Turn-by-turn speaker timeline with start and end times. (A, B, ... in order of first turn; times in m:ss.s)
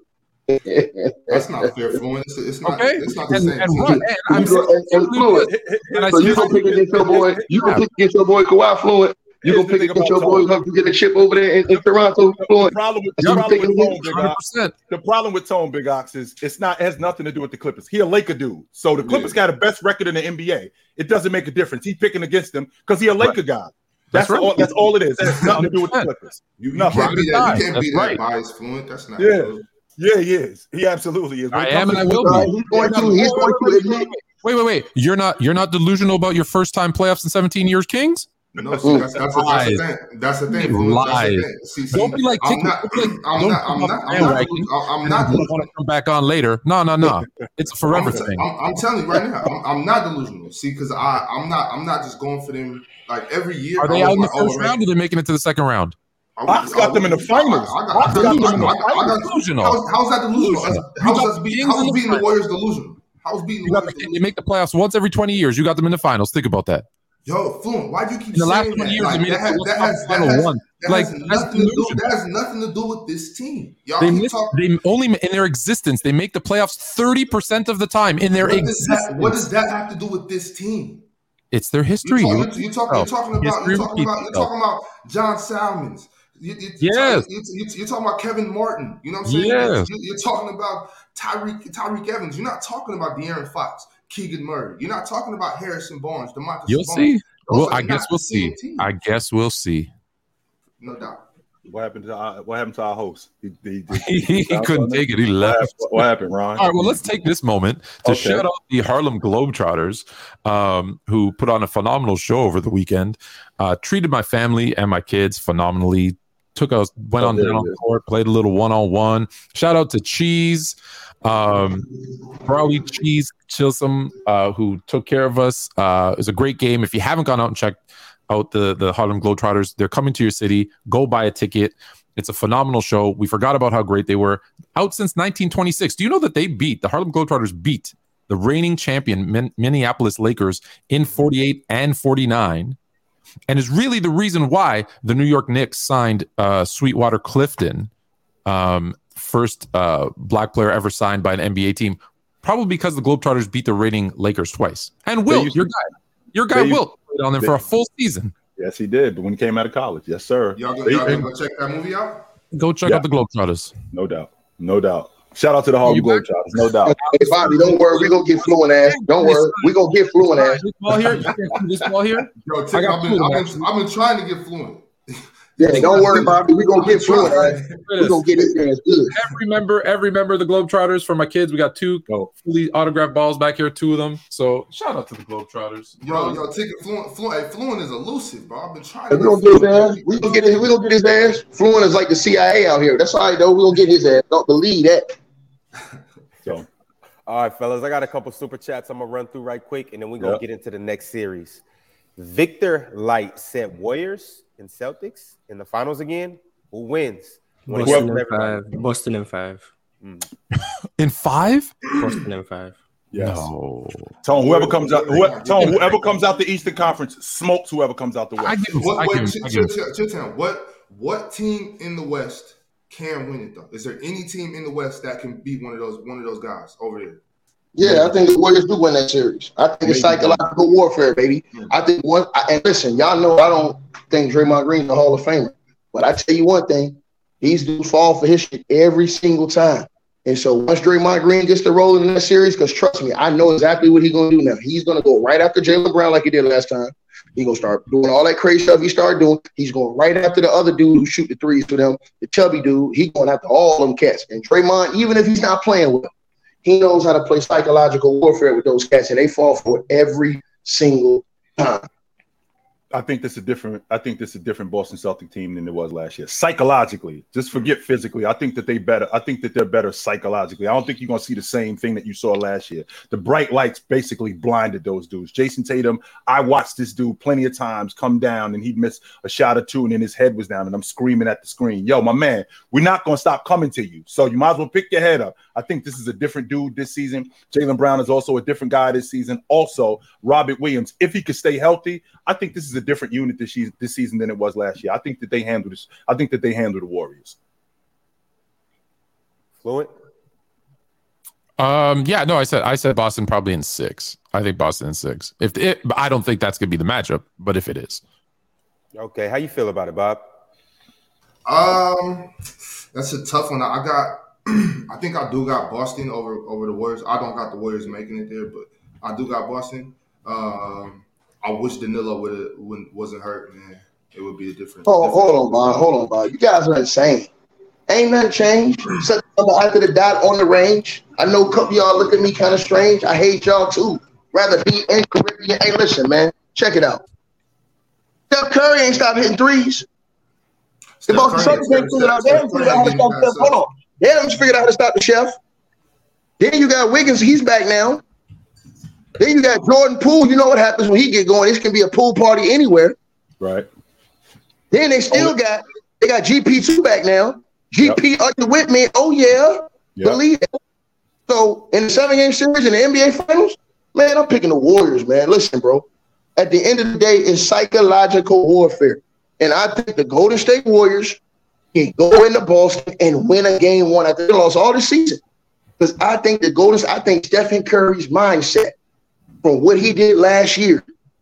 0:00.5-0:01.7 A
0:01.3-0:04.1 B
0:02.6-0:07.8 C
0:03.9-0:05.5 A
0:05.3-0:07.8 D
0:06.1-0:14.0 A
0:09.4-0:10.5 D
0:11.7-0:27.6 D
0:13.2-0:14.8 C
0:19.1-0:19.3 B
0:19.1-0:19.3 C
0:24.1-0:26.1 C
0:25.3-0:25.6 B
0:26.6-0:29.6 B
0:26.9-0:28.2 C
0:29.2-0:32.5 D
0:31.5-0:33.6 C
0:32.0-0:34.1 A
0:32.7-0:34.1 B
0:34.2-0:38.3 C
0:38.6-0:45.6 B
0:38.6-0:39.1 D
0:38.8-0:39.1 A
0:39.3-0:39.8 C
0:40.5-0:48.5 C
0:47.0-0:47.5 D
0:47.9-0:54.8 B
0:53.8-0:55.9 C
0:56.4-1:04.3 B
0:56.5-0:59.2 D
0:58.1-0:59.8 C
1:00.4-1:02.3 C
1:03.6-1:06.8 C
1:07.2-1:14.6 B
1:08.3-1:12.0 C
1:14.0-1:19.5 C
1:18.4-1:21.0 B
1:21.5-1:24.5 C
1:22.0-1:38.9 B
1:26.8-1:27.3 C
1:29.2-1:29.9 C
1:36.7-1:39.9 C
1:40.8-1:41.2 B
1:41.6-1:47.0 D
1:43.9-2:22.8 C
1:48.0-1:48.4 D
1:57.2-1:57.8 D
2:23.5-2:27.9 C
2:28.4-2:38.3 C
2:35.3-2:35.6 D
2:36.5-2:36.8 D
2:38.6-2:41.3 D
2:40.5-2:42.2 B
2:42.5-2:43.7 C
2:43.9-2:47.0 D
2:45.8-2:46.2 C
2:46.8-2:50.6 A
2:47.0-2:53.7 C
2:50.9-2:51.9 D
2:52.4-2:54.9 B
2:55.6-2:57.8 B
2:55.6-2:59.1 A
2:55.6-2:56.4 C
2:57.0-2:58.3 C
2:59.1-3:06.4 C
3:06.0-3:10.7 B
3:09.1-3:15.1 A
3:17.3-3:21.6 E
3:22.2-3:28.8 E
3:27.7-3:29.7 F
3:27.8-3:28.1 D
3:30.0-3:30.2 E
3:30.6-3:31.8 C
3:31.8-3:32.8 F
3:33.1-3:33.5 D
3:33.2-3:34.2 C
3:34.2-3:38.6 D
3:34.3-3:36.3 B
3:38.4-3:39.7 C
3:38.7-3:47.2 B
3:47.7-4:16.1 A
3:47.8-3:48.2 D
3:49.8-3:50.4 D
4:16.6-4:21.8 A
4:22.9-4:57.4 D
4:59.6-4:59.9 E
5:01.6-5:08.0 C
5:09.0-5:10.2 E
5:11.4-5:12.3 B
5:12.9-5:25.5 B
5:24.8-5:27.3 A
5:27.9-5:37.0 A
5:38.3-5:39.8 A
5:41.0-5:43.6 B
5:41.1-5:45.4 A
5:46.4-5:48.0 A
5:49.2-5:53.0 A
5:53.4-5:53.7 D
5:54.7-6:00.4 A
6:01.3-6:11.2 A
6:11.7-6:15.2 A
6:15.8-6:18.7 A
6:19.4-6:20.8 A